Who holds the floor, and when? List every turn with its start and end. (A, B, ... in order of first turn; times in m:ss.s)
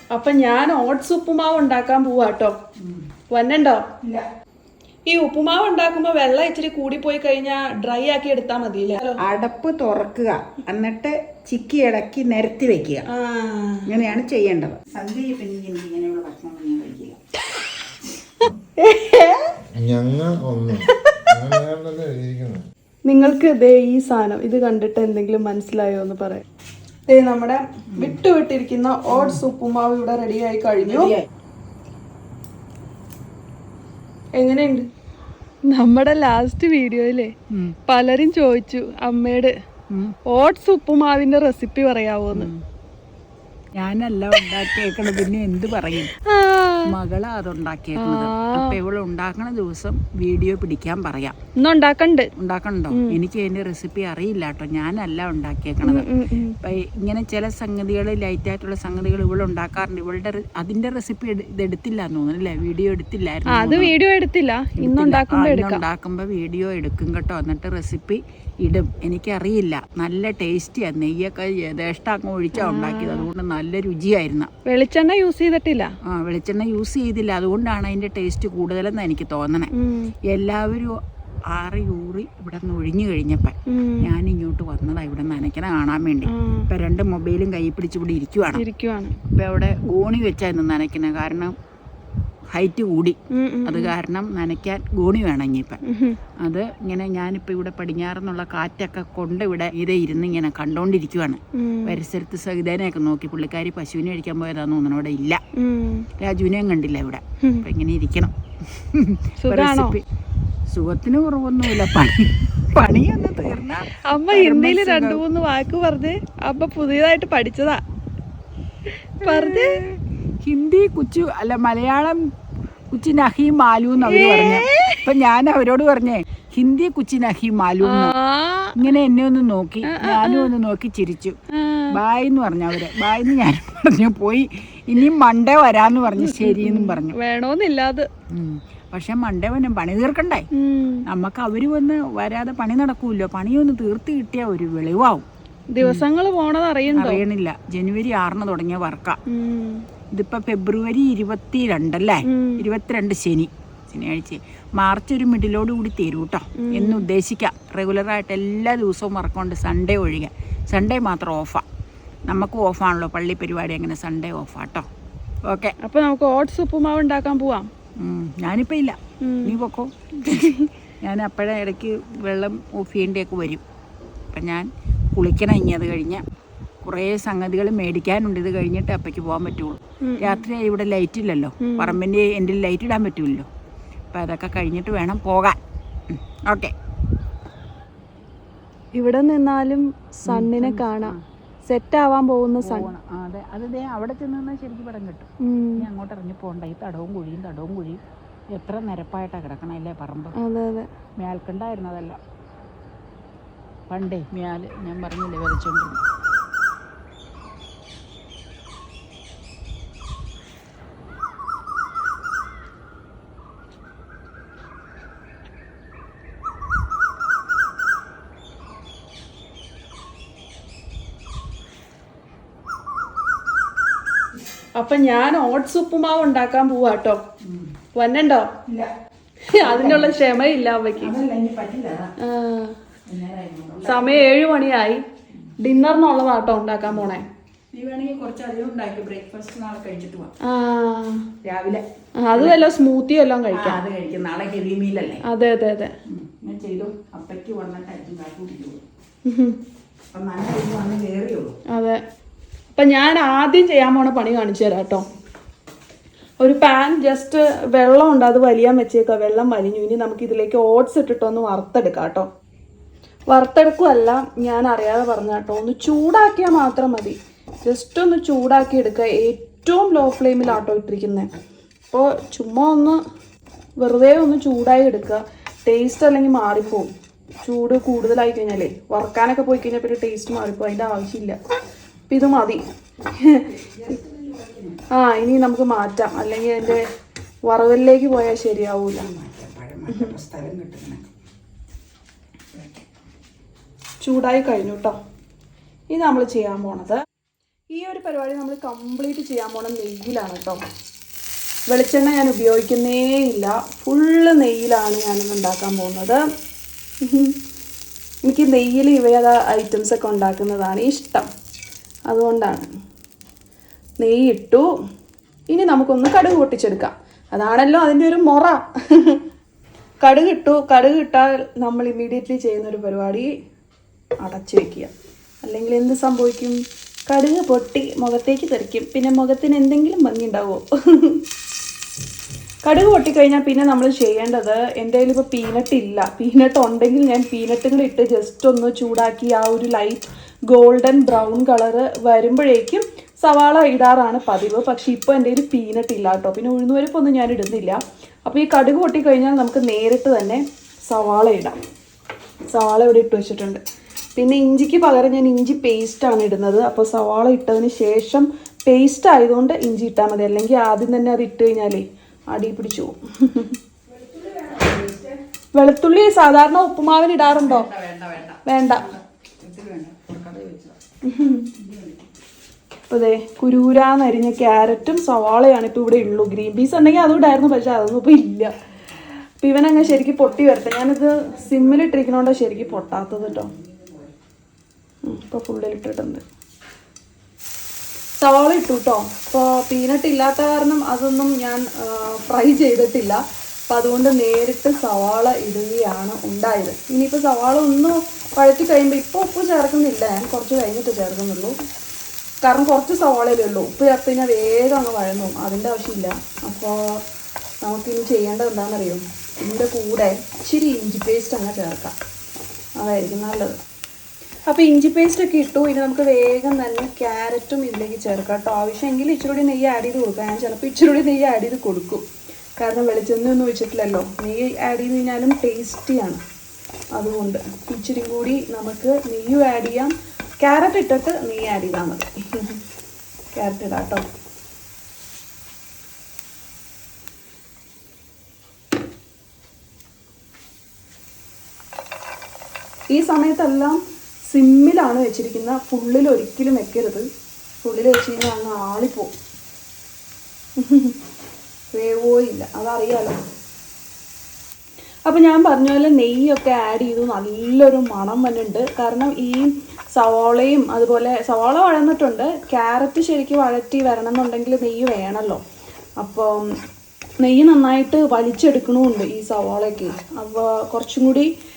0:00.1-0:02.6 A
0:02.8-0:03.0 B
0:03.3-0:03.8 A
0:04.0-0:04.3 B
0:05.1-0:09.2 A
0:09.2-0:13.1 B
0:13.1-0:13.9 A
0:13.8-0:17.2 B
0:18.8-0:19.5 A
0:19.8-0:22.6 C
0:23.1-0:26.4 A
0:27.1-0:31.1 A
0:34.4-0:34.9 A
0:35.7-0:37.3 A
0:37.5-0:37.8 B
0:37.9-0:39.5 A
0:39.9-0:40.2 B
0:40.2-0:42.5 A
0:42.3-0:42.6 B
0:43.8-0:46.1 B
0:46.1-0:46.9 A
0:46.8-0:51.4 B
0:48.0-0:48.8 A
0:51.6-0:52.3 A
0:52.4-0:56.1 B
0:52.9-0:53.2 A
0:55.8-0:56.6 A
0:56.6-1:03.9 B
1:03.5-1:05.8 A
1:04.8-1:14.5 B
1:12.6-1:13.3 A
1:14.6-1:15.9 A
1:16.0-1:19.7 B
1:19.7-1:20.1 A
1:20.2-1:21.0 B
1:21.5-1:28.6 B
1:23.7-1:24.1 A
1:26.3-1:26.7 A
1:28.6-1:29.2 A
1:29.3-1:31.6 B
1:32.5-1:35.8 B
1:33.3-1:33.9 A
1:35.8-1:36.2 A
1:36.4-1:45.4 B
1:41.5-1:42.0 A
1:45.6-1:46.1 A
1:46.2-1:50.0 B
1:49.4-1:49.9 A
1:50.7-1:55.2 B
1:54.0-1:57.8 A
1:59.2-1:59.8 A
1:59.2-2:02.3 B
2:02.9-2:08.1 B
2:04.0-2:05.0 A
2:07.8-2:08.9 A
2:08.7-2:11.4 B
2:09.8-2:10.5 A
2:11.5-2:11.9 A
2:11.9-2:17.1 B
2:16.2-2:18.1 A
2:18.3-2:20.5 B
2:20.5-2:21.0 A
2:21.0-2:25.3 B
2:25.7-2:27.2 A
2:26.9-2:29.2 B
2:29.3-2:29.8 A
2:30.1-2:41.6 B
2:32.3-2:32.6 A
2:36.6-2:37.0 A
2:42.3-2:44.9 B
2:45.4-2:45.8 B
2:45.8-2:47.7 A
2:48.0-2:53.6 B
2:49.2-2:49.6 A
2:50.3-2:50.7 A
2:54.3-2:56.2 B
2:56.8-3:03.5 B
3:00.0-3:00.4 A
3:01.6-3:02.0 A
3:04.1-3:05.6 B
3:06.1-3:06.7 B
3:08.9-3:11.1 A
3:10.2-3:11.2 B
3:11.6-3:12.9 A
3:12.6-3:18.0 B
3:15.4-3:15.9 A
3:18.5-3:20.4 B
3:20.4-3:20.9 A
3:21.2-3:22.2 B
3:23.9-3:26.0 B
3:44.8-3:47.2 A
3:47.4-3:47.7 B
3:47.9-3:48.5 A
3:48.7-3:48.9 B
3:49.5-3:51.1 A
3:49.6-3:50.2 B
3:51.0-3:52.1 B
3:52.2-3:52.8 A
3:53.1-3:54.3 B
3:53.8-3:55.0 A
3:55.6-3:57.2 A
3:57.7-4:00.3 B
4:00.4-4:01.3 A
4:01.4-4:02.6 B
4:02.2-4:03.8 A
4:03.5-4:05.2 B
4:05.3-4:05.9 A
4:06.0-4:08.8 B
4:09.2-4:09.6 A
4:10.1-4:11.6 B
4:11.7-4:12.0 A
4:12.8-4:15.0 A
4:16.4-4:22.3 A
4:23.3-4:31.3 A
4:31.9-4:33.0 A
4:33.8-4:36.9 A
4:37.4-4:41.4 A
4:42.1-4:42.6 A
4:43.2-4:43.5 A
4:43.5-4:44.8 B
4:44.9-4:46.8 A
4:47.4-4:49.0 A
4:49.0-4:51.1 B
4:52.5-4:52.8 B
4:54.0-4:55.0 A
4:55.9-4:57.0 A
4:57.7-5:00.6 A
5:01.7-5:06.2 A
5:07.0-5:07.4 A
5:08.2-5:11.3 A
5:12.1-5:12.7 A
5:14.0-5:14.7 A
5:15.5-5:19.2 A
5:20.0-5:23.3 A
5:24.2-5:24.9 A
5:25.4-5:31.2 A
5:32.6-5:51.6 A
5:52.5-5:53.6 A
5:54.2-6:03.5 A
6:03.9-6:05.2 B
6:05.5-6:07.7 A
6:07.2-6:10.8 B
6:08.4-6:08.8 A
6:11.0-6:11.5 A
6:11.5-6:12.1 B
6:12.9-6:18.5 A
6:19.4-6:23.5 A
6:19.8-6:24.2 B
6:25.0-6:26.2 A
6:28.2-6:41.6 A
6:42.4-6:47.0 A
6:47.6-6:51.9 A
6:52.8-6:53.6 A
6:54.5-7:02.0 A
7:02.6-7:06.2 A
7:06.9-7:12.6 A
7:13.3-7:14.0 A
7:22.9-7:27.0 A
7:27.6-7:29.1 A
7:30.6-7:31.0 A
7:31.7-7:33.2 A
7:35.0-7:45.4 A
7:46.0-7:46.5 A
7:47.2-7:51.3 A